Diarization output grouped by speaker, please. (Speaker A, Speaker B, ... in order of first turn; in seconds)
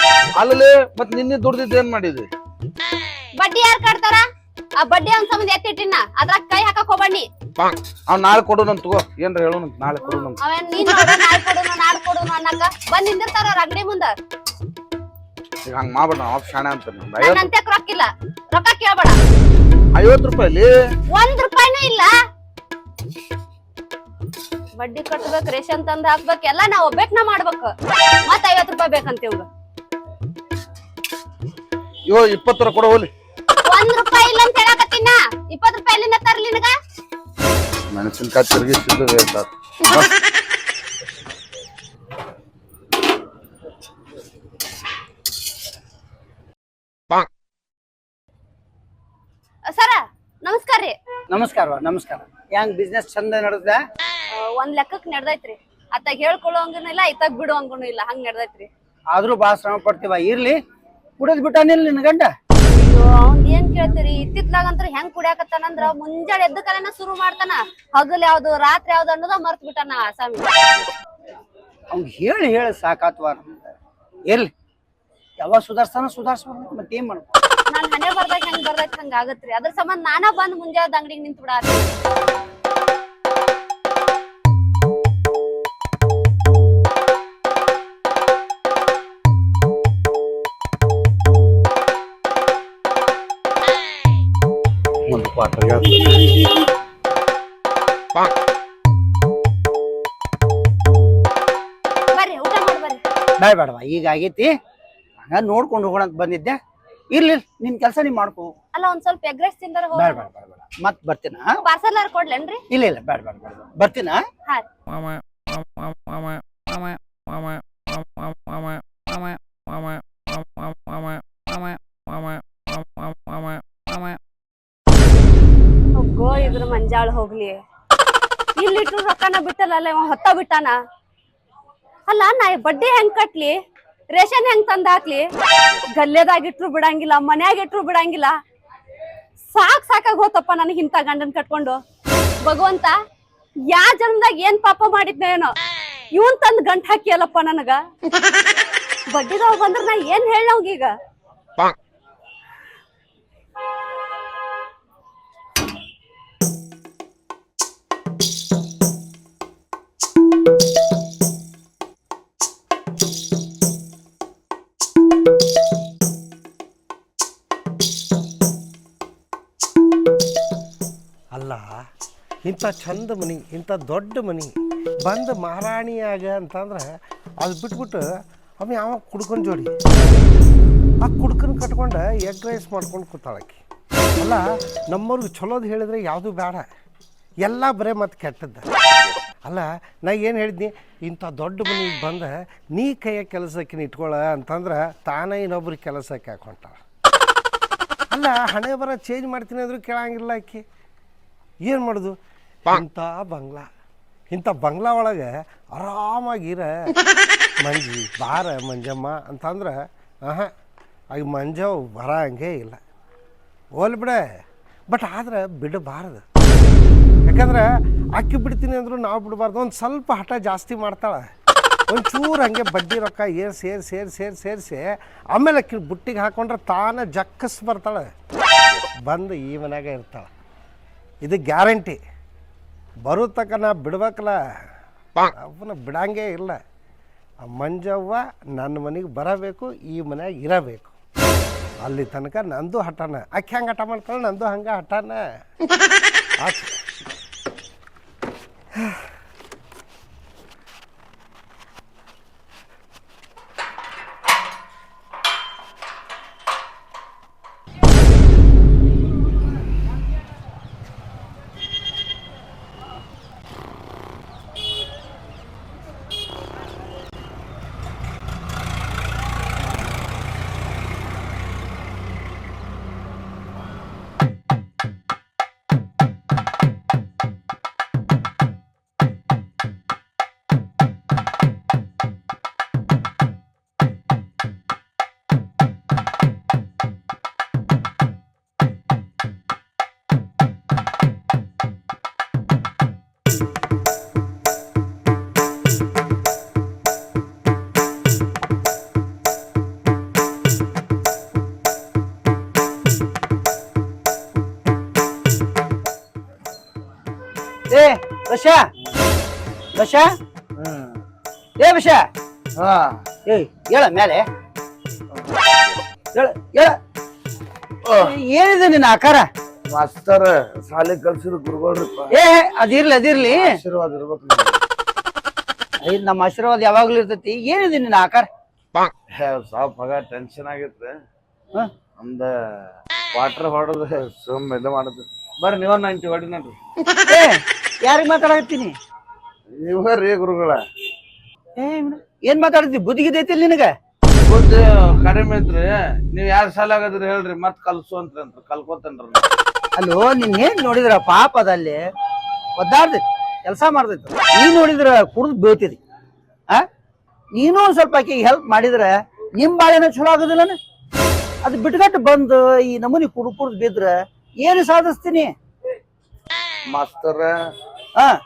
Speaker A: 0.3-2.3, 8.1-10.4, 15.7-17.5, 19.9-20.7, 32.1-33.1, 37.9-40.1, 95.1-96.0, 310.6-311.0, 312.6-313.0, 315.1-315.7, 317.9-318.1, 319.7-322.1, 323.2-324.6, 329.1-330.9, 332.0-332.3, 333.1-336.6, 339.5-340.6, 344.2-349.3, 366.7-367.3
Speaker B: 3.4-4.2, 4.8-7.3, 10.4-14.1, 17.2-19.1, 21.1-22.1, 24.8-27.7, 28.2-29.4, 33.6-36.7, 49.7-50.9, 54.3-58.7, 62.7-70.5, 77.7-81.8, 102.1-103.0, 108.7-110.2, 111.6-112.6, 126.0-127.6, 128.6-130.8, 132.1-133.6, 134.1-135.3, 135.9-138.3, 139.5-141.8, 142.4-142.9, 143.7-145.5, 146.1-147.8, 149.1-150.9
Speaker C: 51.3-53.8, 59.1-60.5, 61.2-62.3, 71.9-73.7, 75.4-77.3, 103.4-104.5, 105.3-106.6, 107.1-108.5, 109.9-111.6, 112.7-114.2, 307.7-308.6, 309.7-310.1, 311.6-312.0, 313.2-314.2, 316.1-316.7, 318.0-319.2, 322.1-323.5, 325.8-328.3, 337.1-338.7, 341.6-343.7, 349.8-351.8, 352.6-355.8, 357.3-360.6, 361.4-365.3
Speaker D: 171.3-171.8, 172.4-178.1, 178.6-179.7, 181.0-183.6, 184.2-186.6, 187.4-188.7, 189.4-196.8, 198.1-200.6, 201.7-202.2, 202.7-203.7, 204.3-206.9, 207.6-210.5, 211.1-212.8, 213.8-214.4, 214.9-216.2, 217.2-221.3, 221.9-228.1, 229.0-230.3, 231.2-232.0, 233.0-234.4, 235.3-236.6, 237.4-240.9, 241.8-245.2, 246.4-246.7, 248.8-249.0